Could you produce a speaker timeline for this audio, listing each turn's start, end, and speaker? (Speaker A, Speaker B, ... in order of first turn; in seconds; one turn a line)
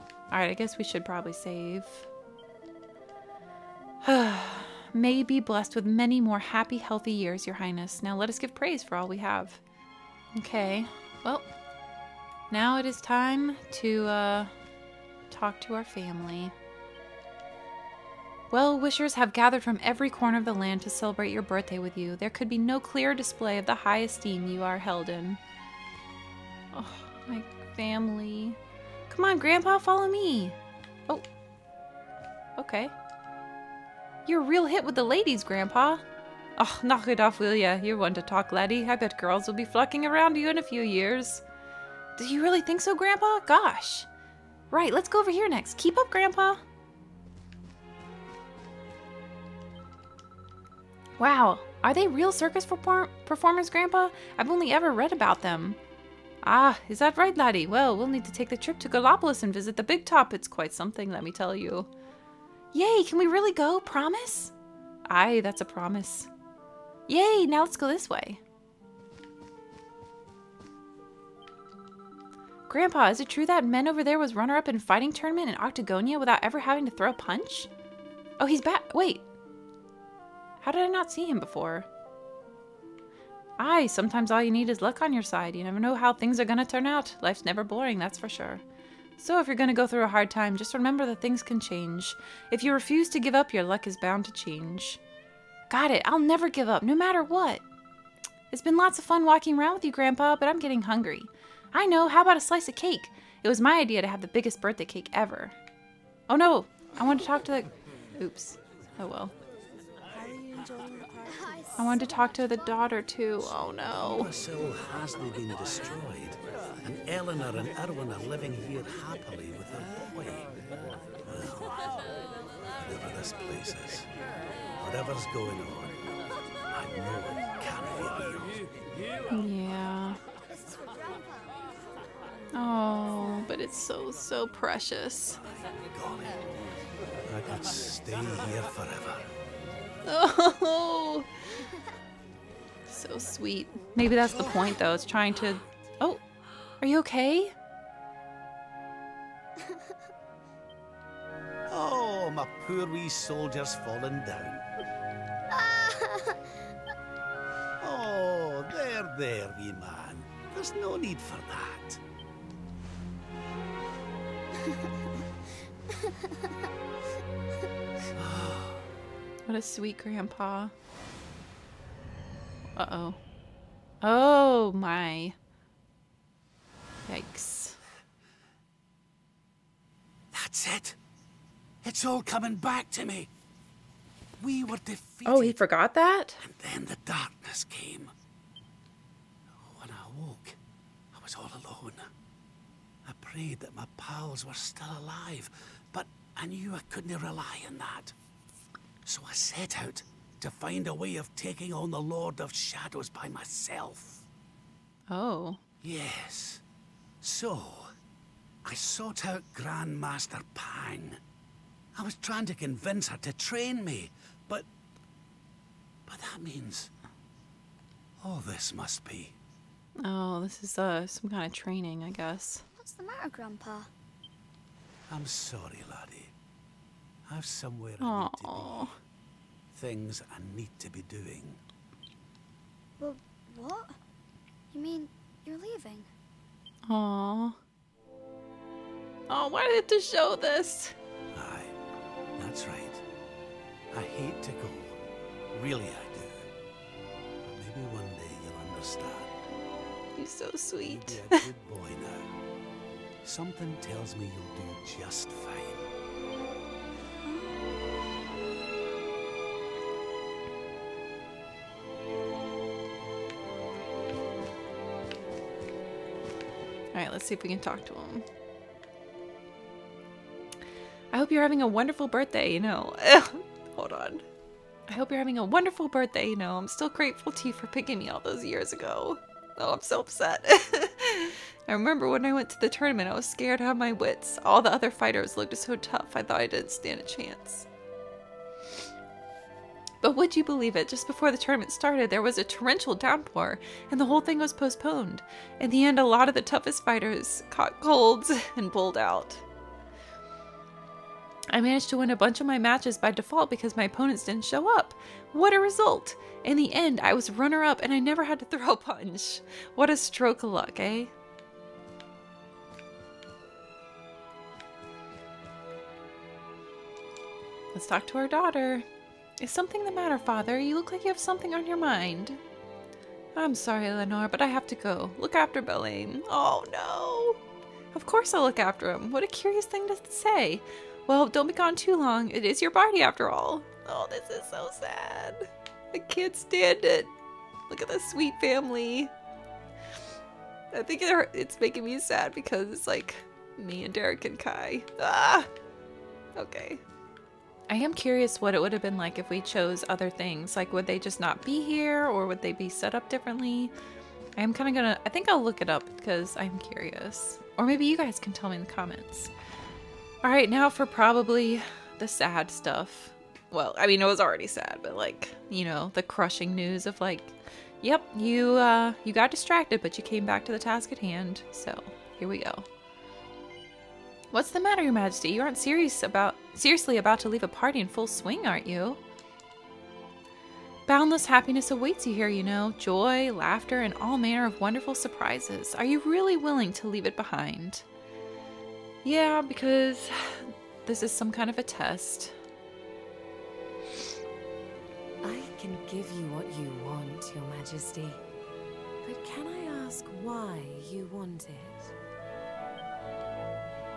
Speaker A: 0.3-2.1
Speaker A: 4.0-9.6
Speaker A: 10.3-11.4
Speaker A: 12.5-14.5
Speaker A: 15.3-16.5
Speaker A: 18.5-25.4
Speaker A: 26.7-28.6
Speaker A: 29.1-30.6
Speaker A: 32.6-32.9
Speaker A: 34.2-36.0
Speaker A: 36.6-41.4
Speaker A: 42.1-44.1
Speaker A: 44.7-46.6
Speaker A: 51.2-55.8
Speaker A: 56.4-61.9
Speaker A: 62.7-64.5
Speaker A: 65.0-66.3
Speaker A: 67.1-68.4
Speaker A: 72.7-77.7
Speaker A: 78.4-79.2
Speaker A: 80.6-81.9
Speaker A: 83.6-88.6
Speaker A: 89.2-95.0
Speaker A: 95.7-97.6
Speaker A: 98.5-105.5
Speaker A: 106.3-109.3
Speaker B: 110.1-111.9
Speaker C: 111.2-112.8
Speaker A: 111.8-114.3
Speaker D: 113.9-120.5
Speaker D: 121.2-121.8
Speaker D: 122.8-124.1
Speaker D: 124.8-126.1
Speaker D: 126.7-128.7
Speaker A: 129.3-130.2
Speaker A: 132.5-135.4
Speaker D: 135.9-136.6
Speaker D: 137.2-139.2
Speaker A: 140.0-141.3
Speaker A: 142.9-146.2
Speaker A: 146.8-147.5
Speaker D: 151.7-154.6
Speaker C: 155.5-156.4
Speaker D: 157.8-162.0
Speaker C: 166.0-166.5
Speaker D: 168.2-168.8
Speaker A: 169.4-170.7
Speaker A: 172.8-173.2
Speaker A: 174.0-175.3
Speaker A: 177.1-177.8
Speaker D: 180.3-181.0
Speaker D: 181.8-183.3
Speaker D: 184.4-185.6
Speaker A: 185.2-186.4
Speaker D: 186.4-188.1
Speaker D: 189.5-190.6
Speaker D: 191.1-192.1
Speaker D: 193.0-198.1
Speaker D: 199.0-204.2
Speaker A: 205.1-205.6
Speaker D: 205.8-206.6
Speaker D: 207.2-207.9
Speaker D: 208.6-211.2
Speaker D: 211.9-214.7
Speaker D: 216.1-216.9
Speaker D: 218.2-219.3
Speaker A: 220.0-222.6
Speaker C: 222.7-223.9
Speaker D: 225.1-226.3
Speaker D: 227.3-228.9
Speaker A: 228.0-228.9
Speaker D: 229.7-231.6
Speaker C: 233.0-233.9
Speaker C: 234.7-236.1
Speaker A: 236.9-237.6
Speaker A: 239.3-240.9
Speaker D: 241.3-241.7
Speaker D: 242.4-243.0
Speaker D: 243.9-245.0
Speaker D: 245.5-246.5
Speaker D: 247.4-249.3
Speaker A: 250.2-251.4
Speaker D: 250.8-252.3
Speaker D: 253.2-255.8
Speaker A: 266.9-268.2
Speaker A: 271.1-274.2
Speaker A: 274.9-287.6
Speaker A: 290.0-299.4
Speaker A: 301.5-311.1
Speaker A: 317.7-318.8
Speaker A: 319.4-322.4
Speaker A: 323.3-327.4
Speaker A: 327.9-337.1
Speaker A: 337.7-339.1
Speaker A: 340.7-345.5
Speaker A: 346.3-346.8
Speaker A: 347.7-353.7
Speaker A: 354.4-359.3
Speaker A: 360.2-372.6
Speaker A: 374.3-379.0
Speaker A: 380.9-387.8
Speaker A: 389.0-392.3
Speaker B: 395.2-398.2
Speaker B: 399.0-401.9